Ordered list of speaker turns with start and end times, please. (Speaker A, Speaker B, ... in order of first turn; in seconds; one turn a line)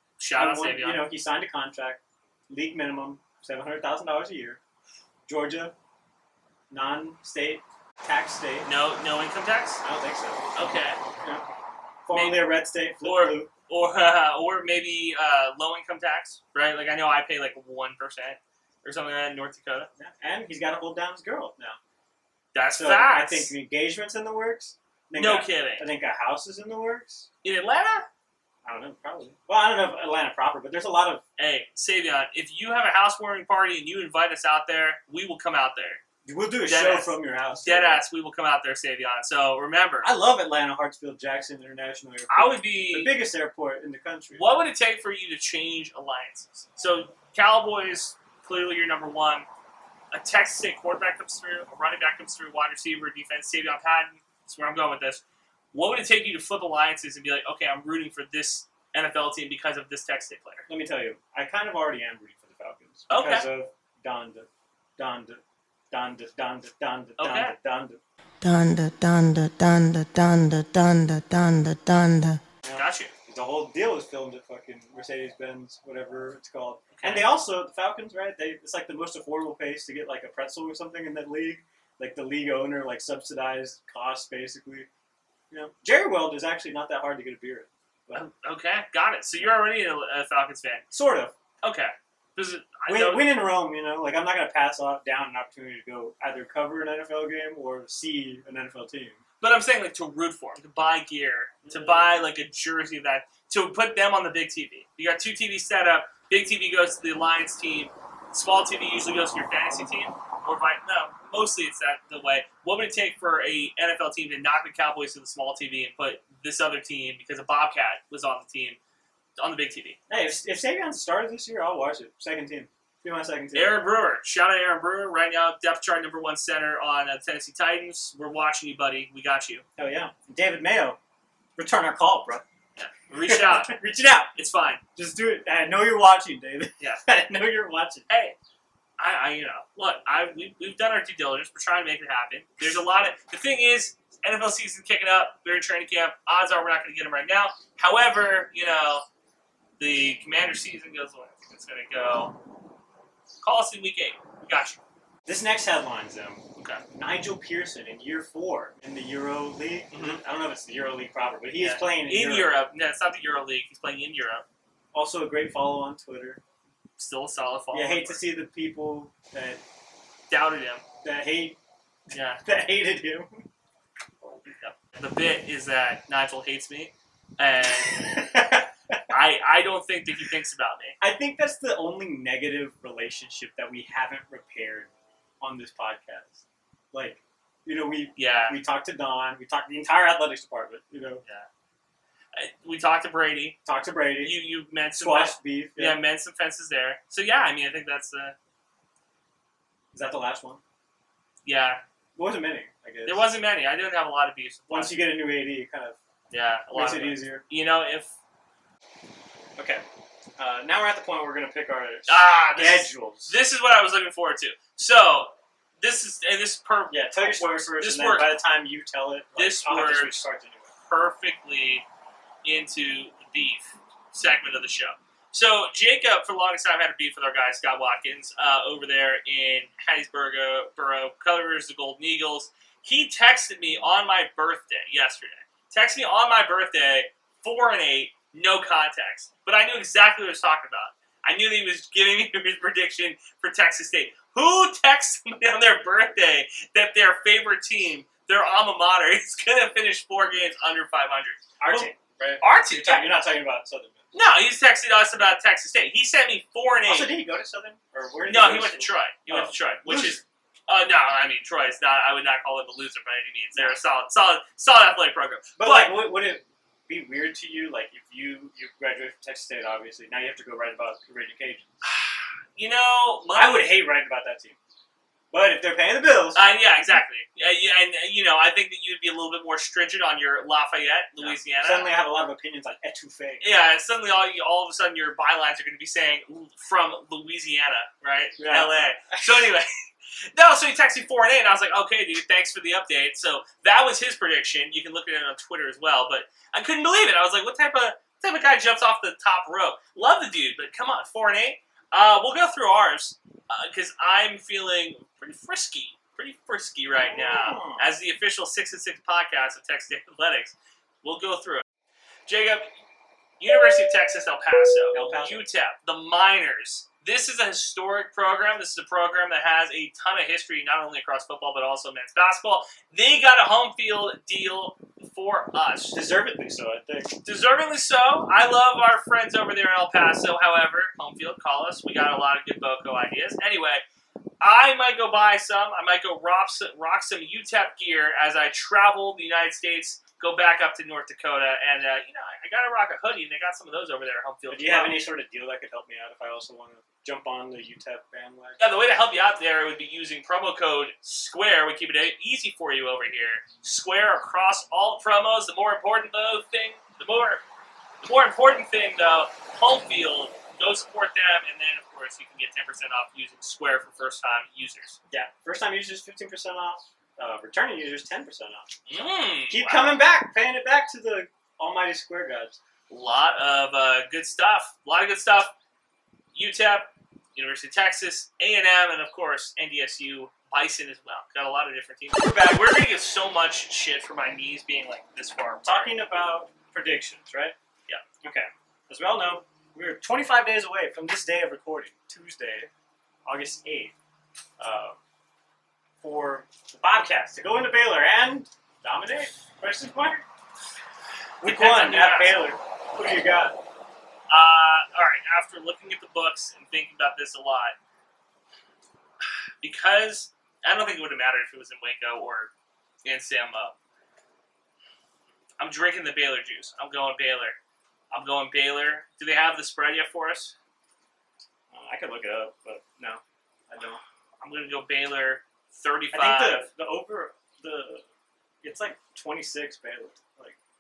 Speaker A: 0.2-1.1
Speaker B: 0.3-4.6
Speaker B: 5.3-5.7
Speaker B: 6.7-8.7
Speaker A: 8.7-9.8
Speaker B: 9.8-10.6
Speaker A: 10.6-11.0
Speaker B: 11.2-11.5
Speaker B: 12.1-13.5
Speaker A: 12.1-19.9
Speaker B: 20.0-21.8
Speaker A: 22.5-23.5
Speaker B: 22.8-27.3
Speaker A: 25.2-25.9
Speaker A: 27.4-28.1
Speaker B: 28.6-31.2
Speaker A: 31.4-36.0
Speaker B: 36.3-38.0
Speaker A: 36.7-40.1
Speaker B: 40.0-44.4
Speaker A: 42.3-43.1
Speaker A: 44.4-49.5
Speaker A: 50.1-55.2
Speaker A: 55.7-60.7
Speaker B: 60.7-64.5
Speaker A: 63.1-63.5
Speaker B: 65.0-68.0
Speaker A: 67.2-67.5
Speaker C: 68.4-72.4
Speaker B: 72.6-84.9
Speaker A: 72.7-73.1
Speaker A: 77.0-77.3
Speaker B: 85.5-88.2
Speaker A: 88.1-90.9
Speaker B: 90.9-91.3
Speaker A: 91.6-93.4
Speaker B: 92.9-99.2
Speaker A: 99.4-118.8
Speaker B: 101.6-102.1
Speaker A: 119.4-120.0
Speaker B: 120.1-123.8
Speaker A: 123.5-129.7
Speaker B: 129.8-131.0
Speaker B: 131.6-132.4
Speaker A: 132.8-133.8
Speaker B: 133.2-134.3
Speaker A: 134.3-134.8
Speaker B: 135.0-138.1
Speaker A: 138.1-138.4
Speaker A: 139.0-149.1
Speaker A: 149.8-152.4
Speaker A: 153.4-154.8
Speaker B: 155.3-162.5
Speaker A: 156.6-156.8
Speaker A: 159.9-160.2
Speaker A: 161.6-164.4
Speaker B: 164.9-166.4
Speaker A: 167.0-168.2
Speaker B: 167.7-169.6
Speaker A: 170.3-170.8
Speaker B: 171.0-171.6
Speaker A: 172.1-172.4
Speaker B: 172.4-173.4
Speaker A: 174.4-178.3
Speaker B: 177.9-179.0
Speaker A: 179.1-181.0
Speaker B: 181.0-184.9
Speaker B: 185.4-191.2
Speaker A: 188.2-188.6
Speaker A: 192.3-193.6
Speaker B: 193.7-194.4
Speaker A: 194.2-198.3
Speaker B: 195.0-196.0
Speaker B: 199.9-200.6
Speaker A: 201.4-201.8
Speaker B: 202.2-203.2
Speaker A: 203.1-205.0
Speaker B: 204.7-206.0
Speaker A: 206.3-208.1
Speaker B: 206.7-207.4
Speaker B: 209.6-209.8
Speaker B: 210.4-213.3
Speaker A: 212.1-218.4
Speaker B: 216.9-220.7
Speaker A: 219.4-220.2
Speaker A: 220.9-221.8
Speaker A: 222.4-253.1
Speaker B: 251.6-254.0
Speaker A: 254.1-257.1
Speaker B: 256.9-260.2
Speaker A: 258.3-266.0
Speaker B: 265.6-271.7
Speaker A: 271.8-273.7
Speaker B: 273.3-274.6
Speaker B: 275.3-276.5
Speaker A: 276.4-281.9
Speaker B: 281.2-283.5
Speaker A: 283.4-289.7
Speaker B: 288.4-289.2
Speaker A: 290.3-311.6
Speaker B: 306.9-307.9
Speaker A: 312.3-312.7
Speaker A: 313.4-326.0
Speaker B: 314.9-315.5
Speaker B: 325.9-327.2
Speaker A: 327.2-333.8
Speaker A: 334.4-345.0
Speaker B: 344.5-348.6
Speaker A: 348.6-357.4
Speaker A: 358.0-365.0
Speaker B: 365.1-372.6
Speaker A: 368.9-370.0
Speaker A: 372.9-375.5
Speaker A: 376.3-385.9
Speaker B: 382.2-382.6
Speaker B: 385.6-387.6
Speaker B: 388.2-392.7
Speaker B: 393.3-393.9
Speaker B: 394.6-395.0
Speaker B: 396.0-400.2
Speaker B: 401.4-403.6
Speaker A: 401.4-402.4
Speaker A: 404.3-407.8
Speaker A: 409.6-412.5
Speaker A: 413.0-413.7
Speaker A: 415.6-417.6
Speaker A: 418.1-420.6
Speaker B: 421.7-424.0
Speaker A: 424.4-426.7
Speaker B: 426.1-428.1
Speaker B: 428.6-430.6